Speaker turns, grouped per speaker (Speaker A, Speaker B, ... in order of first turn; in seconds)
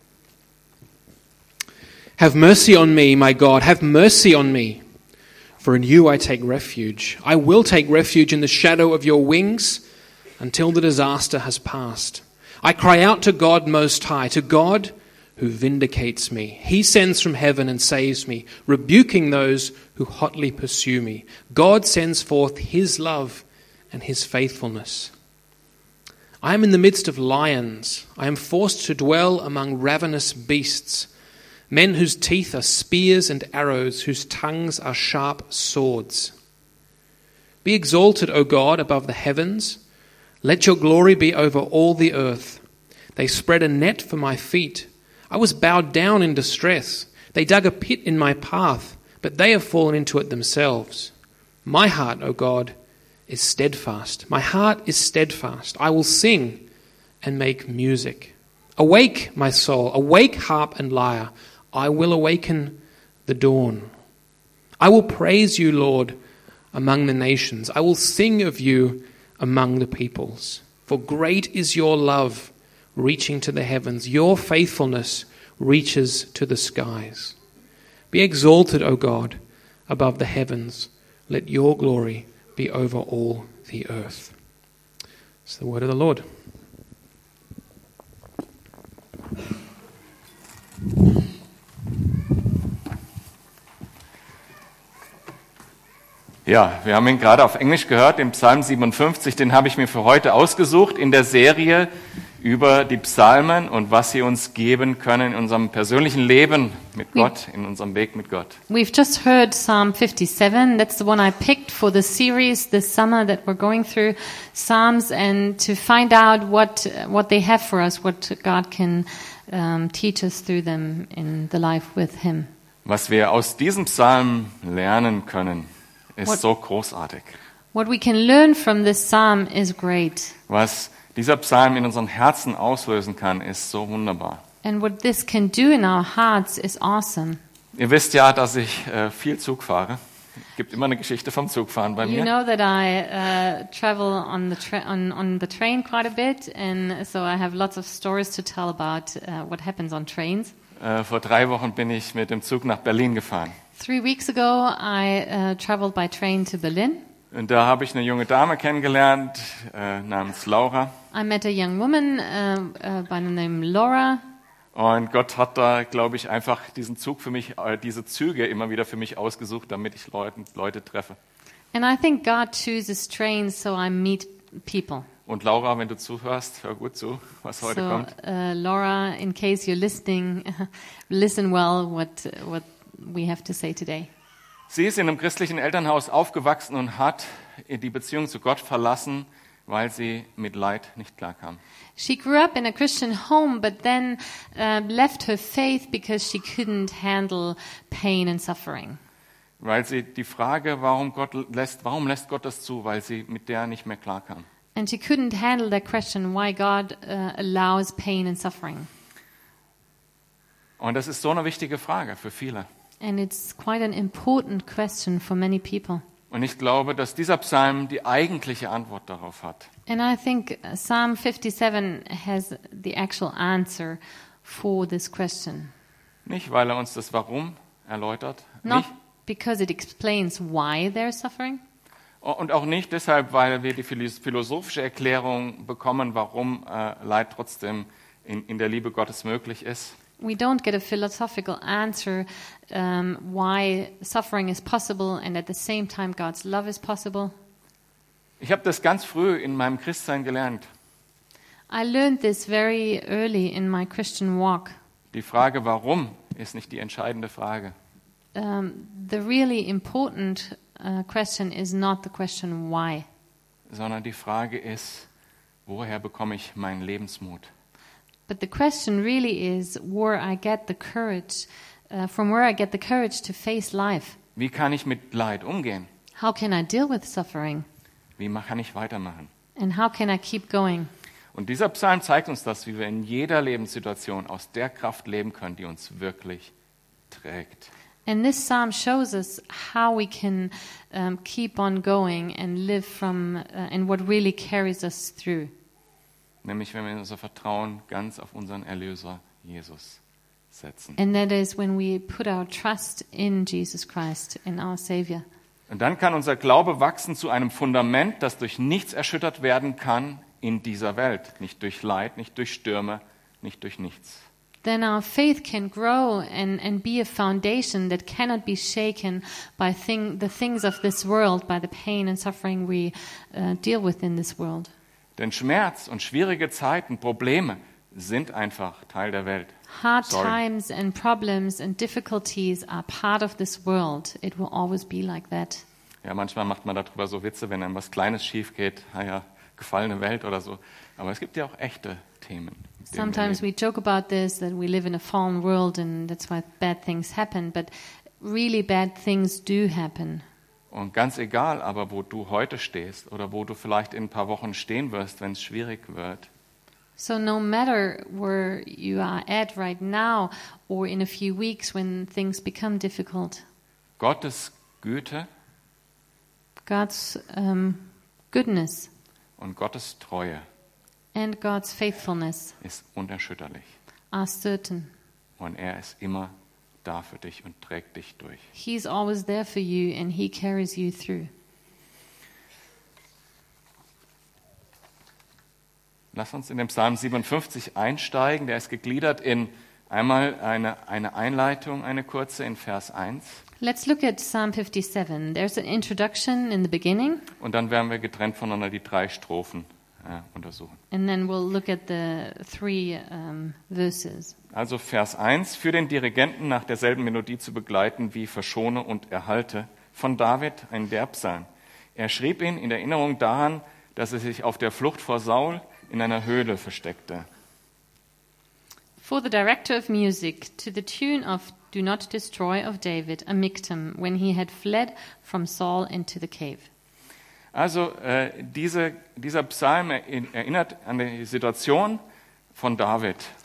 Speaker A: 2.2-4.8, 5.6-9.8, 10.4-25.1, 26.4-31.1, 31.7-36.3, 37.6-39.8, 40.4-42.6, 43.2-51.1, 51.6-52.7, 53.3-56.7, 57.2-63.9, 64.8-66.2, 66.7-77.4, 78.1-84.3, 85.5-86.2
Speaker B: 96.5-108.6, 122.8-127.4, 130.5-134.4, 137.8-140.0, 140.5-142.3, 150.8-153.6, 157.3-161.0, 164.7-171.2, 175.3-178.1, 184.7-191.6, 199.6-204.5, 210.8-212.7, 216.3-219.7, 226.2-228.9, 232.2-240.0, 248.4-250.7, 255.1-257.8, 263.7-265.1, 265.7-267.5, 274.4-275.9, 278.2-279.3, 281.3-286.5, 287.1-287.7, 296.4-300.0, 300.5-301.0, 305.7-314.2, 325.2-330.4, 336.0-343.4, 350.7-356.3, 364.0-365.3, 369.4-370.4, 372.6-373.6, 375.4-378.5, 386.1-393.4, 397.4-400.8, 404.5-417.3, 427.5-432.0, 432.6-433.3
Speaker C: 108.7-122.5, 127.7-130.4, 134.6-137.4, 142.0-150.5, 153.8-157.0, 161.1-164.2, 171.7-175.1, 177.6-184.1, 192.0-199.0, 204.8-208.9, 213.0-216.0, 219.9-225.7, 228.6-231.6, 240.2-247.3, 251.7-254.8, 258.4-263.1, 268.3-274.2, 276.2-277.7, 279.6-280.9, 288.1-295.5, 301.0-305.3, 314.6-324.7, 329.7-335.6, 342.9-350.2, 357.0-363.4, 366.7-368.9, 371.1-372.6, 374.1-374.9, 378.5-381.3, 393.6-397.3, 400.9-404.4, 419.0-426.7